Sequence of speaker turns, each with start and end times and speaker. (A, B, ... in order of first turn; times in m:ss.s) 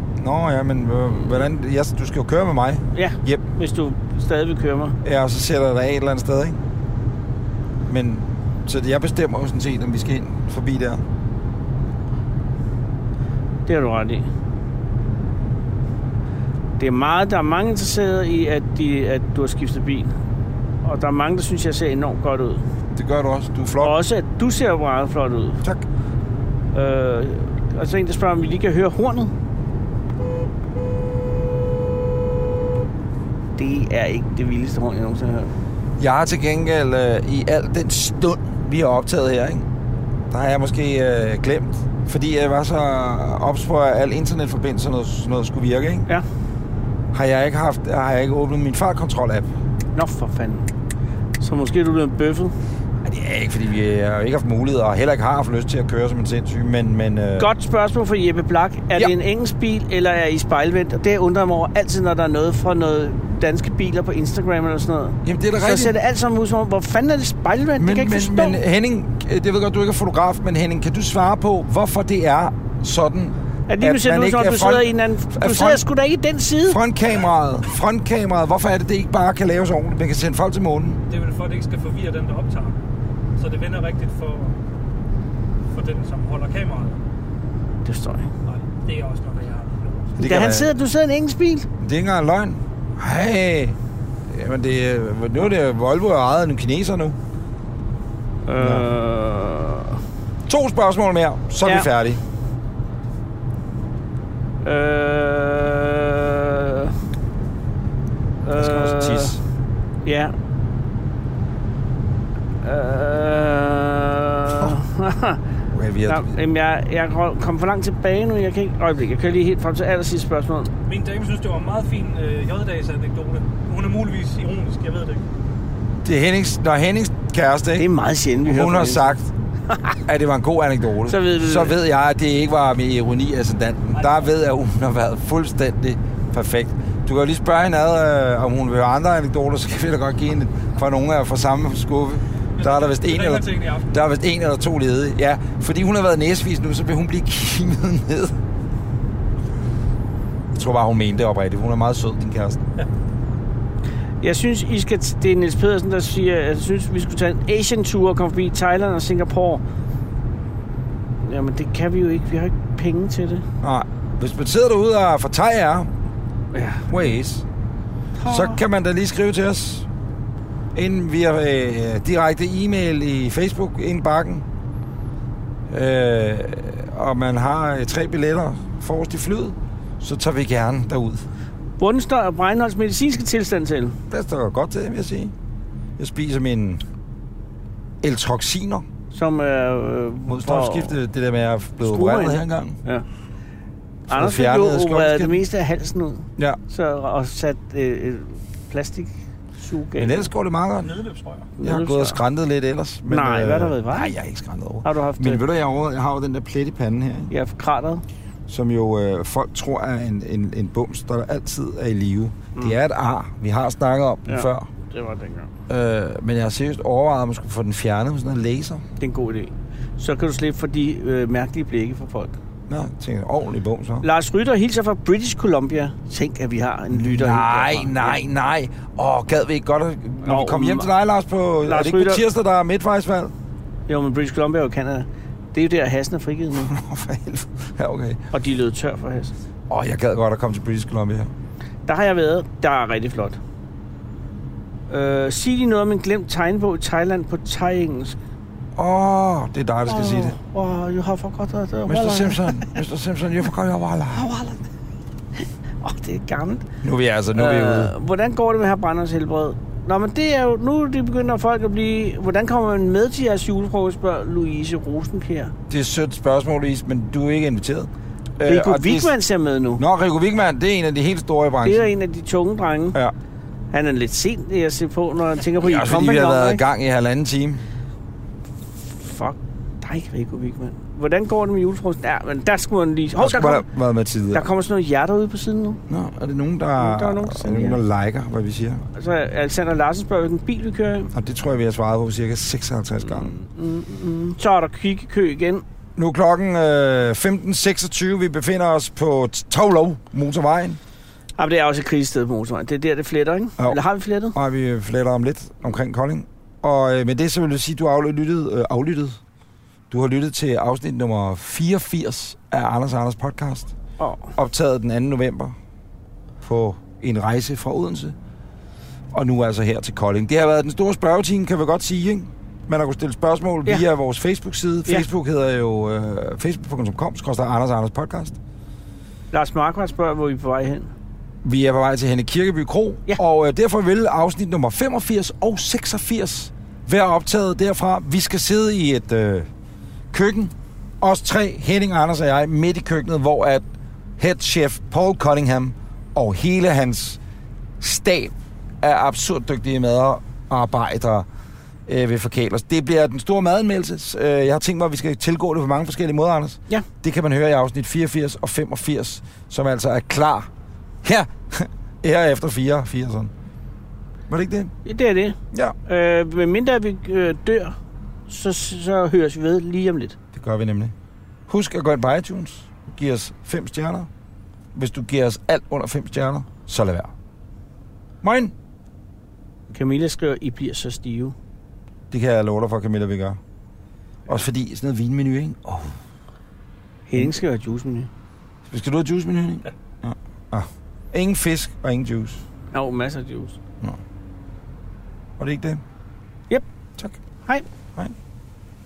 0:00.2-0:03.4 A
0:02.9-0:05.0 B
0:05.0-0:06.6 A
0:07.9-0:11.0 A
0:13.7-0:14.3 B
0:16.8-0:20.1 B
0:20.8-0:22.6 B
0:22.9-0:24.0 A
0:23.8-0:25.6 B
0:26.7-0:29.3 B
0:33.6-0:35.5 B
0:36.0-0:39.6 A
0:40.3-0:46.1 A
0:47.1-0:49.5 A
0:49.9-0:50.7 B
0:51.4-0:52.5 B
0:53.0-0:57.5 A
0:57.4-1:08.6 B
1:05.2-1:05.9 A
1:07.8-1:15.8 A
1:13.7-1:16.8 B
1:16.7-1:21.0 A
1:21.1-1:22.8 C
1:23.4-1:24.5 C
1:25.7-1:27.0 C
1:27.8-1:28.3 B
1:28.4-1:30.2 C
1:30.2-1:30.7 A
1:30.2-1:31.7 B
1:31.8-1:33.8 A
1:34.3-1:37.2 A
1:38.5-1:40.0 B
1:38.6-1:38.9 A
1:40.5-1:42.2 A
1:44.6-1:46.9 B
1:48.4-1:49.4 B
1:48.6-1:49.4 A
1:50.0-1:50.3 B
1:52.6-1:55.4 B
1:55.7-1:56.3 A
1:56.1-2:00.7 B
2:00.9-2:05.2 C
2:06.0-2:07.9 A
2:07.8-2:09.2 B
2:08.4-2:09.3 A
2:09.7-2:10.0 B
2:10.1-2:28.4 A
2:11.1-2:11.7 B
2:22.6-2:23.9 C
2:30.6-2:32.6 A
2:34.2-2:39.6 B
2:41.2-2:43.4 B
2:43.6-2:45.9 A
2:46.5-2:46.9 B
2:46.9-2:47.4 A
2:48.2-2:48.6 B
2:48.3-2:49.9 A
2:50.7-2:54.4 A
2:55.7-3:01.3 A
3:01.8-3:04.0 B
3:04.1-3:05.3 A
3:06.0-3:06.8 A
3:08.0-3:08.8 A
3:09.1-3:10.9 B
3:10.3-3:12.8 A
3:11.8-3:13.0 B
3:14.1-3:15.4 A
3:14.1-3:20.3 B
3:20.0-3:21.0 A
3:20.8-3:21.5 C
3:21.6-3:22.2 B
3:21.6-3:27.3 A
3:23.1-3:24.1 B
3:24.8-3:25.4 B
3:27.3-3:28.0 B
3:28.5-3:34.7 A
3:34.3-3:35.5 B
3:35.7-3:38.8 A
3:39.0-3:42.4 B
3:42.7-3:44.0 A
3:44.0-3:48.2 B
3:46.9-3:53.3 A
3:50.2-3:50.9 B
3:51.6-3:52.2 B
3:53.9-3:56.7 B
3:56.6-3:58.2 A
3:58.3-3:59.3 B
3:59.7-4:01.3 A
4:01.9-4:03.4 B
4:04.9-4:08.2 B
4:08.8-4:10.4 A
4:09.9-4:12.6 B
4:11.9-4:14.3 A
4:14.1-4:14.6 B
4:15.8-4:16.6 B
4:16.8-4:17.9 A
4:17.3-4:25.5 B
4:25.7-4:29.2 A
4:28.4-4:29.8 B
4:29.8-4:31.9 A
4:31.6-4:33.0 B
4:33.7-4:36.6 B
4:35.6-4:37.6 A
4:38.9-4:43.6 B
4:43.2-4:44.4 A
4:44.3-4:45.8 B
4:45.9-4:48.8 A
4:46.8-4:47.8 B
4:49.0-4:51.1 B
4:51.1-4:53.3 A
4:53.1-4:55.6 B
4:56.0-5:00.8 A
5:01.4-5:04.4 B
5:04.3-5:09.2 A
5:09.9-5:13.7 A
5:14.0-5:14.3 B
5:14.4-5:15.6 A
5:16.4-5:18.1 A
5:19.1-5:28.4 A
5:29.3-5:30.9 B
5:31.4-5:39.5 A
5:40.1-5:43.6 A
5:44.2-5:47.2 A
5:47.8-5:51.3 A
5:51.9-6:00.5 A
6:01.0-6:03.3 A
6:04.3-6:04.7 A
6:04.8-6:07.8 B
6:08.3-6:10.2 B
6:10.3-6:10.9 A
6:11.5-6:14.1 A
6:14.7-6:17.1 A
6:18.2-6:18.5 A
6:19.7-6:21.3 B
6:22.1-6:23.4 A
6:24.3-6:25.9 A
6:27.1-6:28.1 B
6:28.7-6:32.4 A
6:32.7-6:33.6 B
6:35.4-6:35.8 A